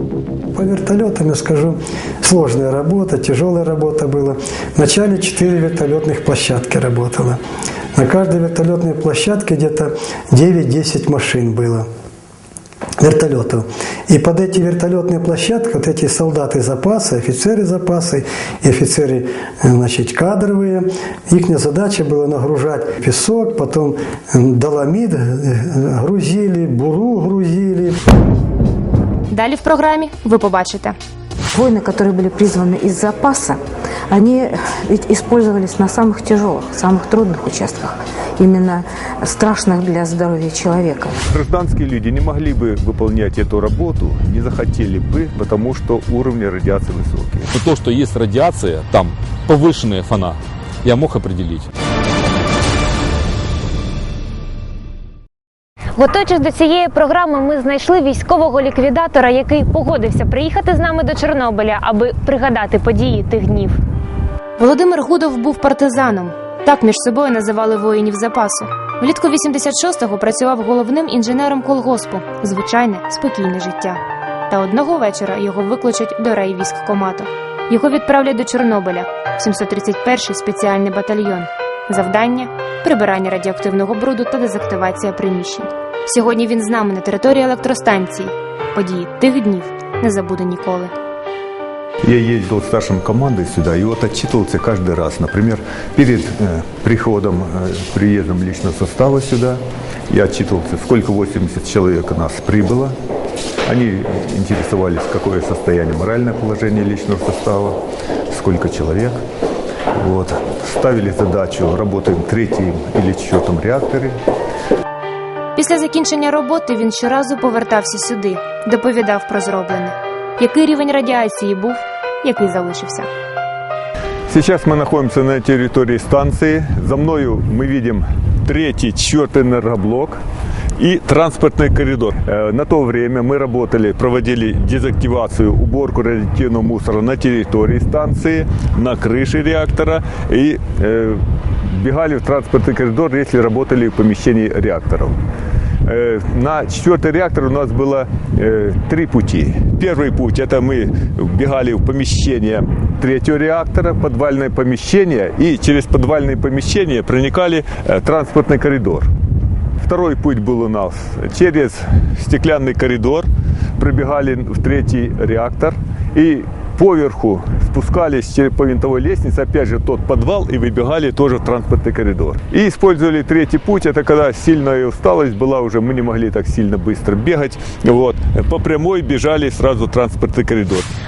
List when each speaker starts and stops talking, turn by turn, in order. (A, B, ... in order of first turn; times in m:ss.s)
0:00.5-0:07.4 A
0:07.9-0:11.8 A
0:13.0-0:28.0 A
0:29.3-0:31.0 B
0:31.5-0:33.6 C
0:34.1-0:41.2 C
0:41.3-0:47.5 D
0:47.5-0:51.7 E
0:56.0-1:03.7 B
1:04.6-1:30.9 B
1:32.0-1:42.9 D
1:43.6-1:47.8 D
1:48.3-1:49.2 D
1:49.9-1:54.2 D
1:55.6-2:03.1 B
2:04.3-2:10.2 D
2:10.8-2:25.2 D
2:25.8-2:39.1 D
2:39.8-3:00.9 D